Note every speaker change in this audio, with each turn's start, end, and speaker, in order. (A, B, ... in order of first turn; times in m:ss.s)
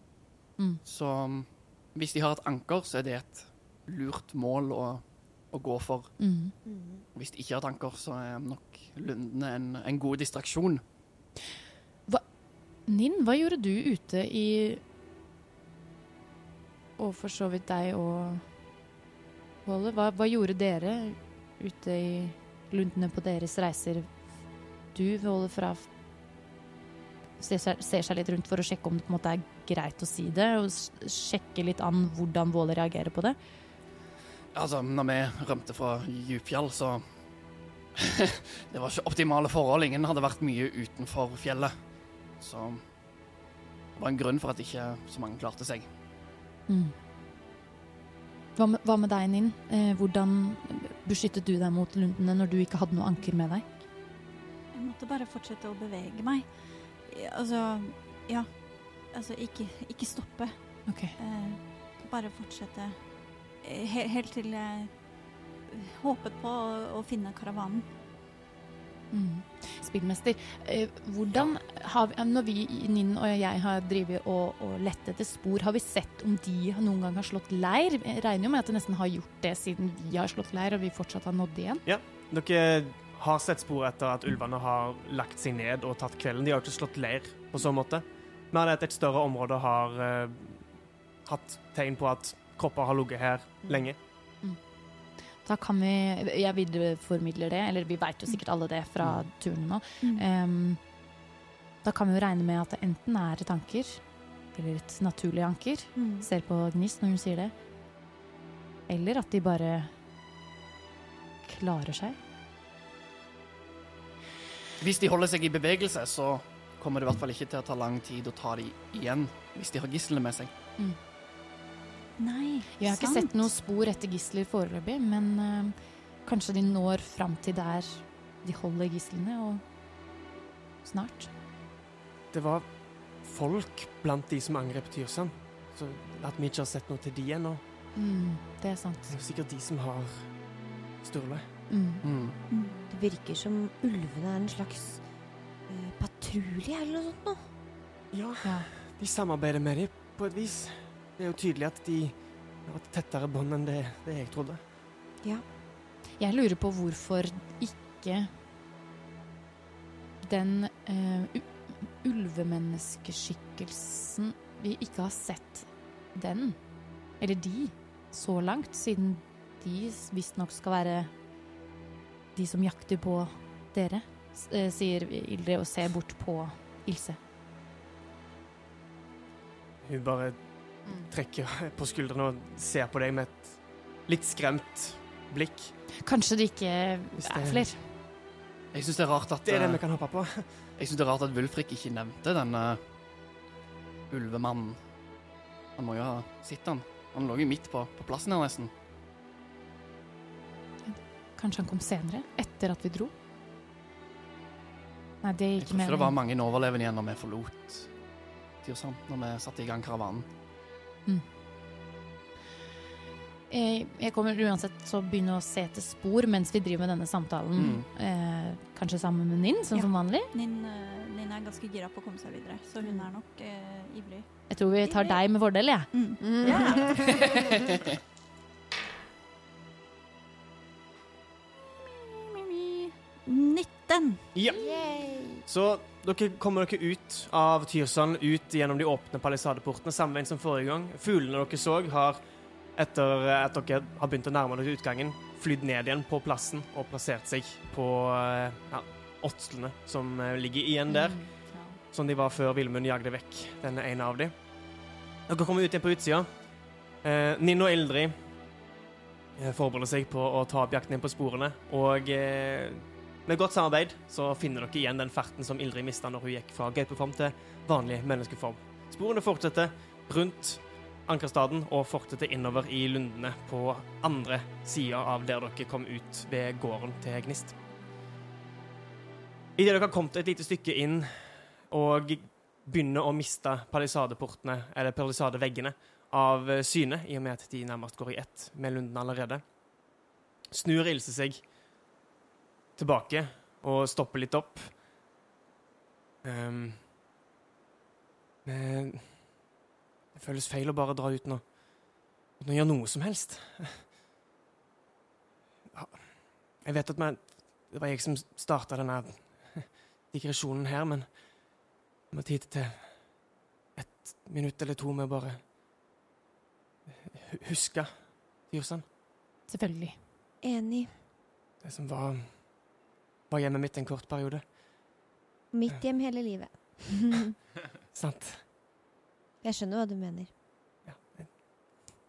0:00.8-0:06.1 A
0:06.2-0:06.5 B
0:06.6-0:07.0 C
0:07.1-0:10.8 A
0:12.8-0:14.8 B
0:17.0-0:18.4 B
0:19.6-0:24.1 B
0:24.9-0:25.9 B
0:27.4-0:33.4 B
0:34.5-0:37.0 A
0:38.0-0:41.7 A
0:42.4-0:42.8 A
0:44.0-0:45.8 A
0:46.7-0:46.9 B
0:48.6-0:53.6 B
0:54.7-1:05.0 D
1:00.8-1:01.2 B
1:05.6-1:07.8 D
1:09.1-1:21.8 B
1:21.8-1:30.7 E
1:31.2-1:34.0 E
1:35.4-1:40.8 B
1:41.8-1:44.0 B
1:44.5-1:47.5 B
1:46.0-1:46.2 D
1:48.9-1:49.9 B
1:51.4-1:52.2 B
1:54.8-2:00.5 A
2:02.2-2:03.5 D
2:02.8-2:09.6 B
2:10.8-2:11.3 B
2:12.3-2:12.6 E
2:13.2-2:17.6 E
2:18.0-2:19.1 B
2:19.1-2:20.3 E
2:21.0-2:21.4 E
2:21.7-2:22.0 B
2:22.0-2:22.4 A
2:22.9-2:25.0 C
2:25.7-2:27.5 C
2:28.1-2:34.6 E
2:28.4-2:28.7 B
2:36.2-2:38.3 B
2:40.2-2:46.6 B
2:47.2-2:51.1 B
2:52.3-2:57.2 B
2:59.8-3:05.7 E
3:06.0-3:07.8 B
3:07.2-3:07.7 E
3:08.7-3:09.8 A
3:09.4-3:10.4 E
3:10.8-3:12.8 A
3:14.1-3:14.8 A
3:15.8-3:18.7 A
3:20.8-3:23.1 B
3:25.2-3:26.2 B
3:25.6-3:27.9 A
3:28.6-3:30.3 A
3:33.5-3:40.3 B
3:37.6-3:37.9 A
3:39.7-3:45.2 D
3:44.5-3:45.9 B
3:45.9-3:47.4 D
3:46.2-3:47.3 C
3:52.3-3:54.2 D
3:54.3-3:54.6 E
3:54.5-3:55.4 C
3:55.4-4:02.2 E
4:02.8-4:11.3 E
4:10.9-4:11.7 B
4:11.9-4:14.3 E
4:15.3-4:16.3 E
4:17.0-4:18.1 E
4:19.4-4:37.6 E
4:39.6-4:49.4 E
4:50.5-4:51.4 E
4:52.8-4:54.7 E
4:56.2-4:56.8 E
4:58.4-4:59.2 E
5:00.1-5:01.4 E
5:02.4-5:03.8 E
5:05.7-5:11.1 E
5:12.1-5:13.0 E
5:13.8-5:15.4 E
5:17.1-5:18.8 E
5:19.5-5:20.0 B
5:20.4-5:20.9 C
5:21.6-5:22.4 E
5:23.3-5:24.4 E
5:25.5-5:27.3 C
5:27.9-5:28.4 E
5:29.4-5:30.3 C
5:30.9-5:31.3 E